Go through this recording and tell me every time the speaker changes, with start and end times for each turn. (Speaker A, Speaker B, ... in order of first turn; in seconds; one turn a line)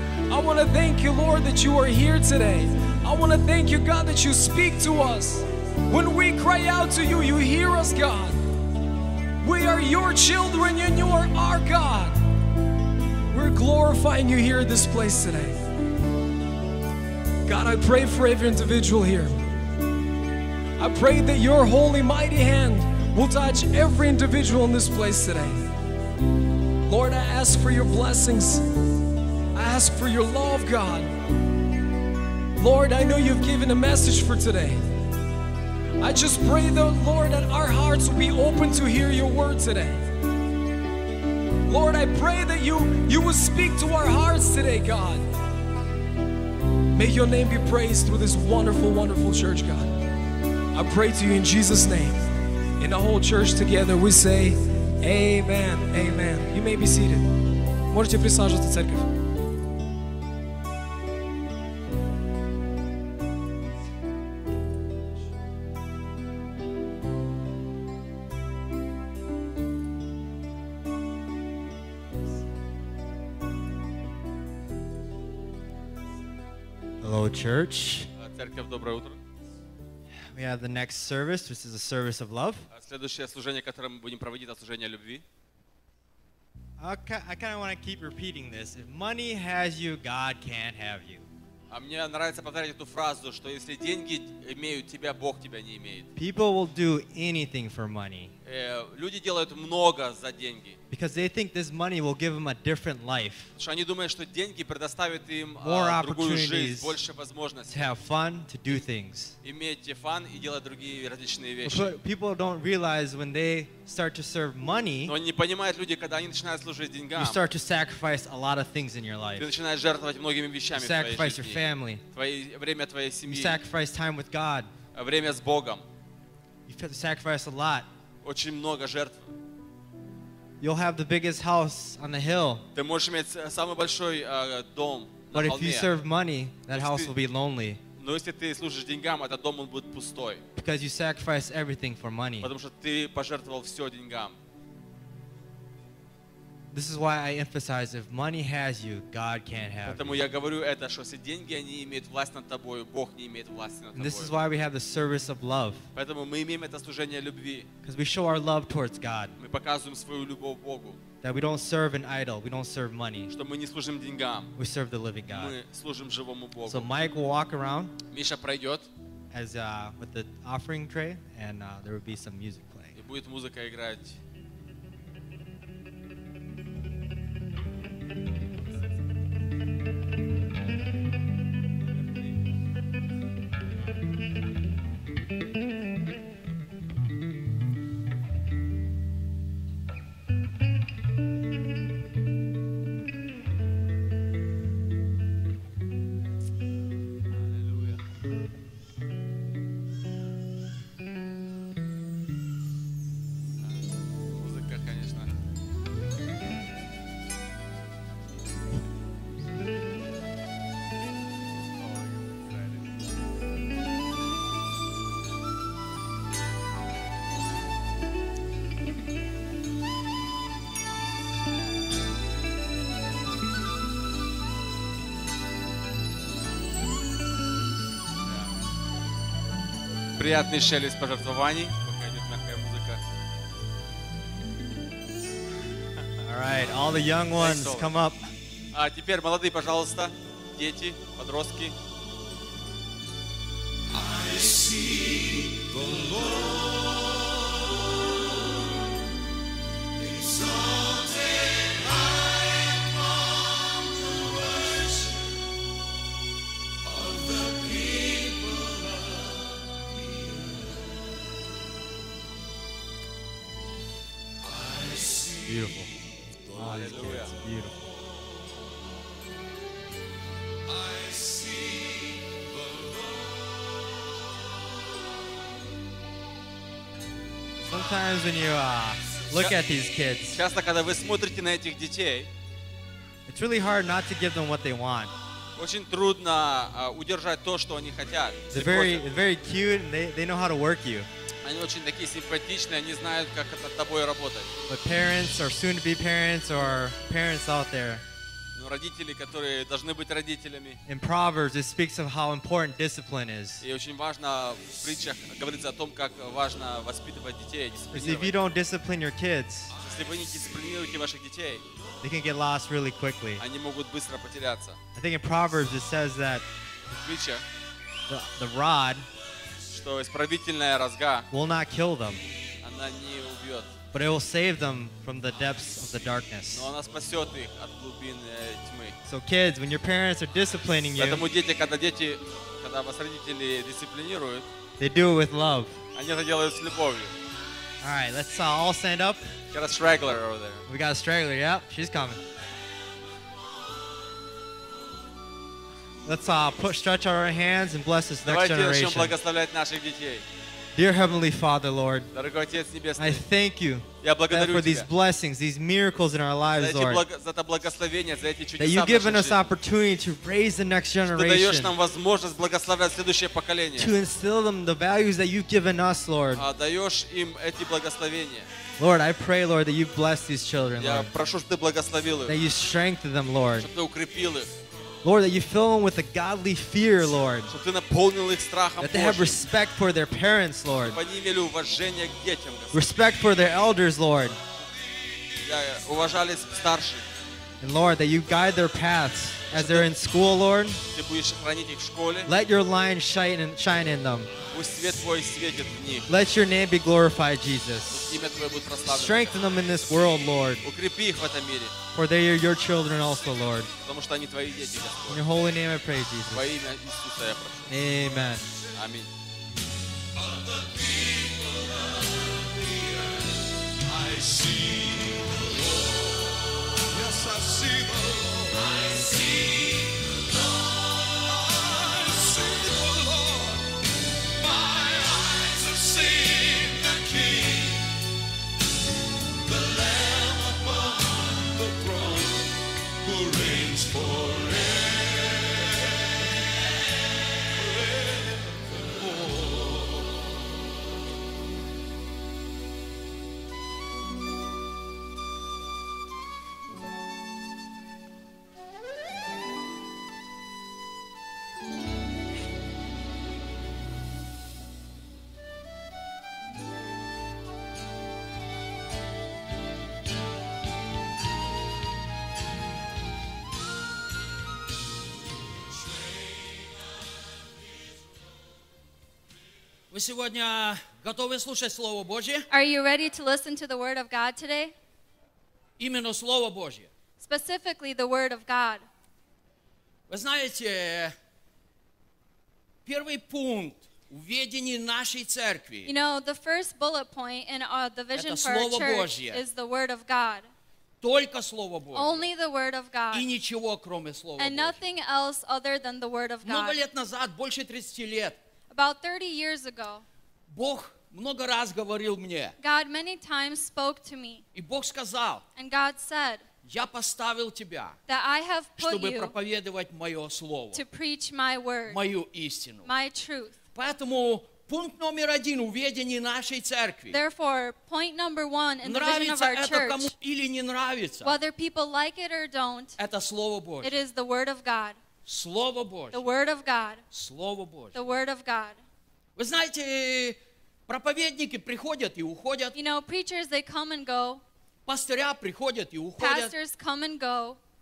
Speaker A: 0.3-8.4
Speaker A: 9.4-12.2
Speaker A: 13.3-15.6
Speaker A: 17.4-19.4
Speaker A: 20.8-25.7
Speaker A: 26.9-28.7
Speaker A: 29.5-31.1
Speaker A: 32.6-34.8
Speaker A: 36.0-40.0
Speaker A: 41.6-45.2
Speaker A: 46.9-49.9
Speaker A: 50.7-52.2
Speaker A: 52.8-57.3
Speaker A: 57.9-59.1
Speaker B: 77.0-78.1
Speaker C: 78.2-79.2
Speaker B: 80.3-82.6
Speaker C: 82.7-85.2
Speaker B: 86.8-91.2
Speaker C: 91.7-96.1
Speaker B: 96.1-98.3
Speaker C: 98.5-100.8
Speaker B: 100.9-103.5
Speaker C: 103.5-107.9
Speaker B: 105.6-107.0
Speaker B: 107.7-109.3
Speaker C: 109.4-111.9
Speaker B: 111.6-115.1
Speaker C: 115.0-117.4
Speaker B: 117.1-119.5
Speaker C: 119.3-123.6
Speaker B: 120.7-122.0
Speaker B: 123.3-124.7
Speaker C: 124.9-125.8
Speaker B: 126.7-127.9
Speaker C: 128.2-129.3
Speaker B: 130.6-132.6
Speaker C: 132.7-135.9
Speaker B: 135.3-137.8
Speaker C: 136.7-137.1
Speaker C: 138.0-140.4
Speaker B: 140.5-142.5
Speaker C: 142.4-144.4
Speaker B: 146.7-150.2
Speaker C: 149.8-154.3
Speaker B: 153.9-155.8
Speaker C: 155.9-157.7
Speaker B: 157.8-159.3
Speaker C: 159.4-161.0
Speaker B: 161.2-163.3
Speaker C: 163.3-164.5
Speaker B: 164.6-165.6
Speaker C: 165.3-166.9
Speaker B: 166.7-167.9
Speaker C: 168.1-168.9
Speaker B: 169.3-172.9
Speaker C: 172.9-174.2
Speaker C: 197.3-198.0
Speaker C: 203.6-205.3
Speaker C: 211.8-212.9
Speaker C: 230.2-233.0
Speaker B: 236.2-238.2
Speaker C: 237.4-237.9
Speaker C: 238.7-241.7
Speaker B: 265.4-265.9
Speaker B: 266.5-267.8
Speaker C: 266.5-267.3
Speaker B: 277.6-280.4
Speaker C: 280.3-282.3
Speaker B: 283.3-285.1
Speaker C: 285.6-289.2
Speaker B: 288.5-291.1
Speaker C: 291.4-294.5
Speaker B: 294.7-298.0
Speaker C: 298.5-300.8
Speaker B: 300.9-303.6
Speaker C: 303.6-308.4
Speaker B: 307.9-309.7
Speaker C: 309.8-311.6
Speaker B: 312.0-313.4
Speaker C: 313.4-314.8
Speaker B: 314.9-316.4
Speaker C: 316.9-317.4
Speaker B: 318.1-319.1
Speaker C: 319.7-321.2
Speaker B: 321.3-322.2
Speaker C: 322.6-323.7
Speaker B: 323.9-326.7
Speaker C: 326.5-328.9
Speaker B: 329.0-331.2
Speaker C: 331.0-334.5
Speaker B: 334.8-335.8
Speaker C: 335.9-337.1
Speaker B: 337.8-339.3
Speaker C: 339.5-340.6
Speaker B: 340.7-342.2
Speaker B: 346.0-349.1
Speaker C: 348.2-350.2
Speaker B: 350.7-352.1
Speaker C: 352.1-353.2
Speaker B: 353.0-357.0
Speaker C: 354.0-354.9
Speaker C: 356.4-359.4
Speaker B: 358.6-361.7
Speaker C: 361.1-363.9
Speaker B: 363.8-366.4
Speaker C: 366.3-368.5
Speaker B: 368.8-371.1
Speaker C: 370.8-372.4
Speaker B: 372.3-373.7
Speaker C: 373.6-374.5
Speaker B: 375.0-377.5
Speaker C: 377.5-379.4
Speaker B: 378.8-381.0
Speaker C: 380.8-382.9
Speaker B: 382.7-384.4
Speaker C: 385.4-387.0
Speaker B: 387.6-390.8
Speaker C: 389.5-389.9
Speaker C: 390.9-392.3
Speaker B: 392.3-394.3
Speaker C: 394.5-396.1
Speaker B: 396.1-398.1
Speaker C: 397.9-399.4
Speaker B: 398.8-400.6
Speaker C: 400.6-401.7
Speaker B: 401.9-403.7
Speaker C: 403.8-405.2
Speaker B: 405.1-406.5
Speaker C: 406.3-407.7
Speaker B: 407.7-408.5
Speaker C: 408.7-409.1
Speaker D: 469.9-472.4
Speaker E: 472.5-474.7
Speaker D: 475.8-476.9
Speaker E: 477.2-478.8
Speaker D: 480.1-481.1
Speaker D: 482.9-485.9
Speaker E: 485.8-490.5
Speaker D: 488.1-489.4
Speaker D: 491.0-492.3
Speaker E: 491.9-493.3
Speaker D: 493.1-494.8
Speaker E: 494.4-496.8
Speaker D: 496.4-498.4
Speaker E: 498.7-500.0
Speaker D: 500.5-502.5
Speaker E: 502.6-504.4
Speaker D: 504.5-505.4
Speaker E: 505.5-506.5
Speaker D: 506.6-507.9
Speaker E: 508.1-509.3
Speaker D: 508.8-510.8
Speaker E: 510.7-512.0
Speaker D: 511.9-512.9
Speaker E: 512.8-513.6
Speaker D: 513.7-517.2
Speaker E: 517.1-520.1
Speaker D: 518.8-521.4
Speaker E: 521.2-523.0
Speaker D: 523.0-524.0
Speaker E: 523.8-525.0
Speaker D: 525.2-526.2
Speaker E: 526.1-527.0
Speaker D: 527.1-528.0
Speaker E: 527.9-528.8
Speaker D: 529.4-532.7
Speaker E: 532.7-534.4
Speaker D: 534.9-536.5
Speaker E: 536.2-537.6